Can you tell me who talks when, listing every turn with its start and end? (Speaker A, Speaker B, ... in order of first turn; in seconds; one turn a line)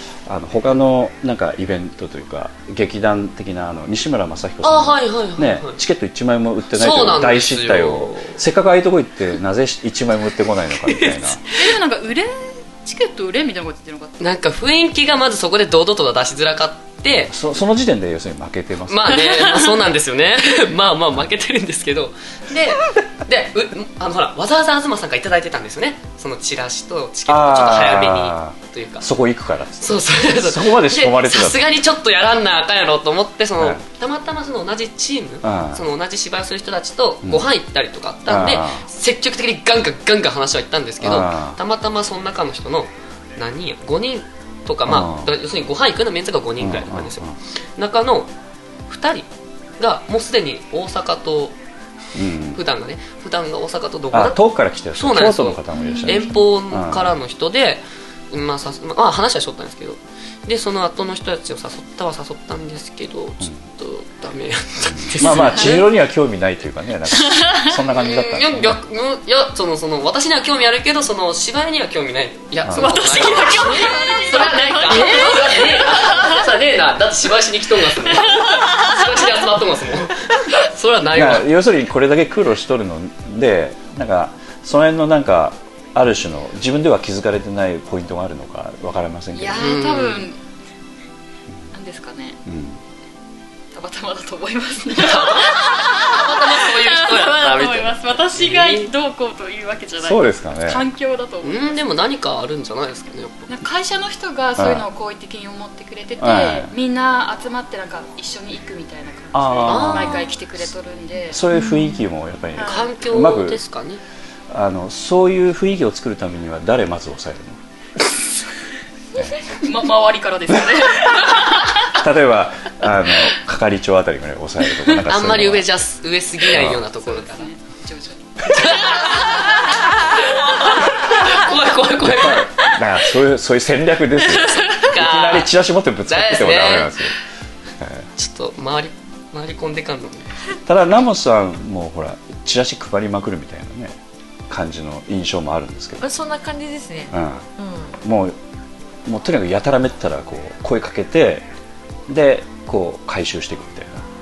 Speaker A: 0.3-11.4
Speaker B: 4.6-5.8
Speaker B: 6.7-8.4
Speaker B: 10.9-11.2
Speaker C: 11.5-14.2
Speaker B: 14.2-17.4
Speaker A: 17.3-19.2
Speaker B: 18.9-29.1
Speaker A: 27.3-31.7
Speaker B: 29.8-48.3
Speaker A: 35.4-35.8
Speaker A: 38.3-38.9
Speaker A: 41.0-41.6
Speaker A: 44.9-45.3
Speaker A: 46.6-47.3
Speaker B: 48.9-49.3
Speaker B: 49.8-51.6
Speaker A: 52.1-52.6
Speaker B: 52.5-54.4
Speaker A: 54.1-57.2
Speaker B: 54.9-65.9
Speaker C: 55.9-56.4
Speaker A: 64.9-68.8
Speaker C: 67.2-67.7
Speaker B: 67.9-81.5
Speaker A: 72.7-73.0
Speaker C: 72.7-76.4
Speaker C: 78.3-78.9
Speaker A: 81.1-89.7
Speaker C: 89.3-90.4
Speaker B: 89.6-90.3
Speaker C: 91.7-92.4
Speaker A: 92.5-92.8
Speaker C: 93.7-101.7
Speaker B: 95.0-98.9
Speaker A: 100.0-100.9
Speaker B: 101.4-103.5
Speaker C: 103.5-111.5
Speaker A: 104.6-104.9
Speaker A: 106.2-106.7
Speaker A: 109.3-110.3
Speaker B: 109.6-110.3
Speaker A: 111.3-113.6
Speaker C: 112.6-112.8
Speaker B: 112.6-114.0
Speaker A: 114.5-117.6
Speaker C: 119.6-121.8
Speaker A: 121.9-125.7
Speaker B: 125.0-127.5
Speaker A: 126.5-126.8
Speaker C: 127.0-131.3
Speaker B: 128.5-132.6
Speaker A: 132.0-137.1
Speaker C: 134.4-134.9
Speaker B: 134.6-135.5
Speaker B: 136.1-137.1
Speaker A: 137.8-138.1
Speaker B: 138.2-140.3
Speaker A: 140.7-144.0
Speaker A: 144.5-146.1
Speaker D: 146.0-148.0
Speaker A: 147.1-147.5
Speaker A: 148.0-148.4
Speaker A: 149.1-151.5
Speaker A: 152.1-154.1